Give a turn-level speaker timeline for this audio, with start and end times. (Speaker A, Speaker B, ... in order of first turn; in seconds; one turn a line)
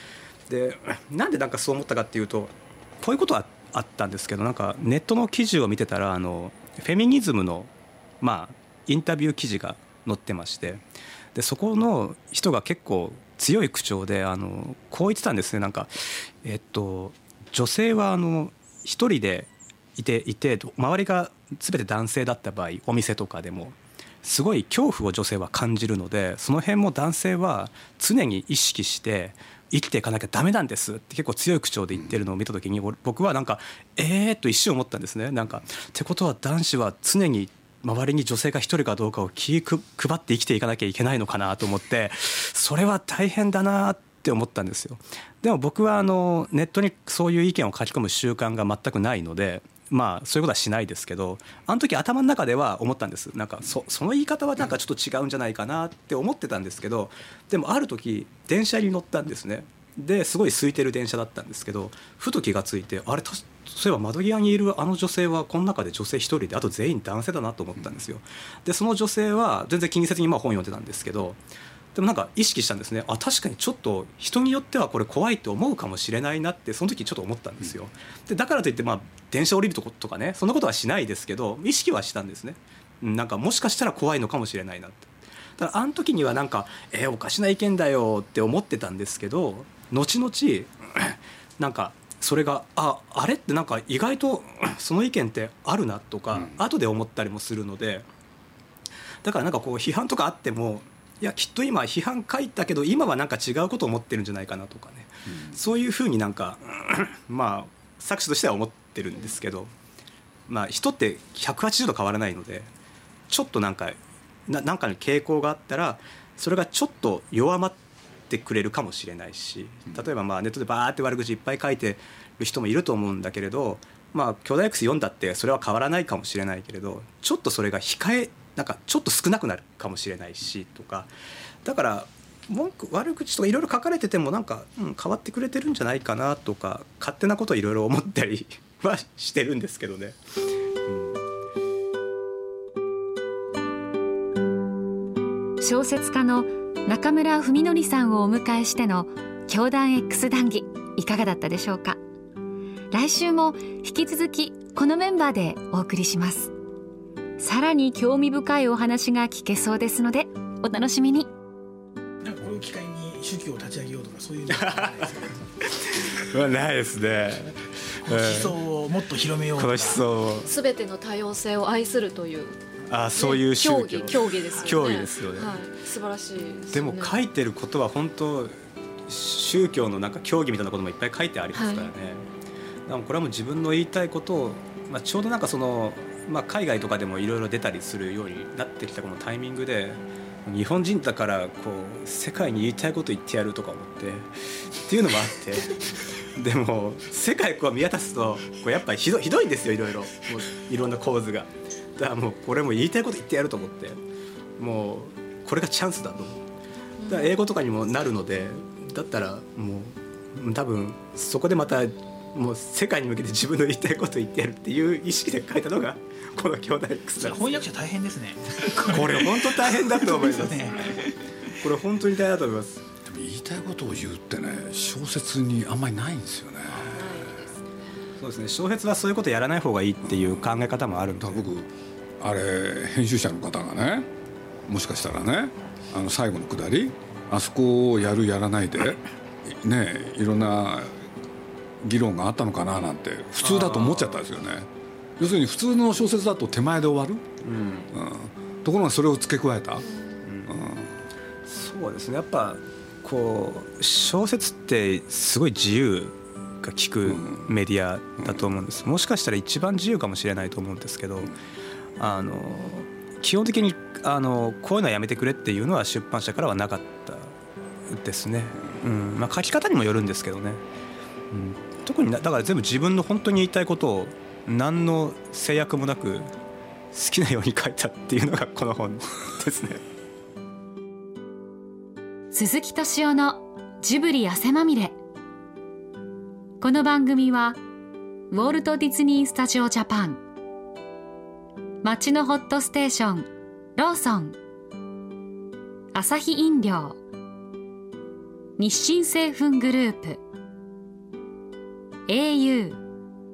Speaker A: 0.5-10.8
Speaker A: 11.3-71.4
Speaker A: 71.9-98.1
Speaker A: 99.2-109.7
Speaker A: 110.5-112.7
Speaker A: 113.3-117.8
Speaker A: 118.3-131.1
Speaker A: 131.7-140.2
Speaker A: 140.9-141.2
Speaker B: 145.6-152.0
Speaker B: 152.9-156.5
Speaker B: 157.4-161.3
Speaker C: 162.2-165.4
Speaker A: 164.5-168.6
Speaker C: 168.0-170.0
Speaker A: 169.6-170.5
Speaker D: 170.4-172.6
Speaker A: 172.9-175.6
Speaker D: 173.2-177.2
Speaker A: 176.7-178.6
Speaker A: 179.1-182.3
Speaker D: 181.5-181.9
Speaker A: 182.9-204.0
Speaker A: 204.6-206.4
Speaker D: 207.0-207.3
Speaker A: 207.1-217.6
Speaker C: 217.2-221.2
Speaker A: 218.8-221.0
Speaker A: 221.5-222.8
Speaker E: 223.1-227.0
Speaker D: 226.9-227.6
Speaker A: 228.2-231.5
Speaker E: 231.2-234.1
Speaker E: 234.7-241.0
Speaker E: 241.8-247.3
Speaker A: 243.4-244.2
Speaker A: 247.4-247.9
Speaker E: 247.9-249.9
Speaker A: 250.2-250.6
Speaker E: 250.5-250.9
Speaker A: 251.5-261.3
Speaker E: 257.1-257.4
Speaker A: 262.0-267.3
Speaker A: 267.9-270.6
Speaker A: 271.3-276.3
Speaker A: 276.9-279.8
Speaker B: 282.3-284.9
Speaker B: 286.6-287.6
Speaker B: 288.3-290.2
Speaker B: 291.8-294.4
Speaker B: 295.9-297.0
Speaker B: 298.6-300.2
Speaker B: 302.1-302.8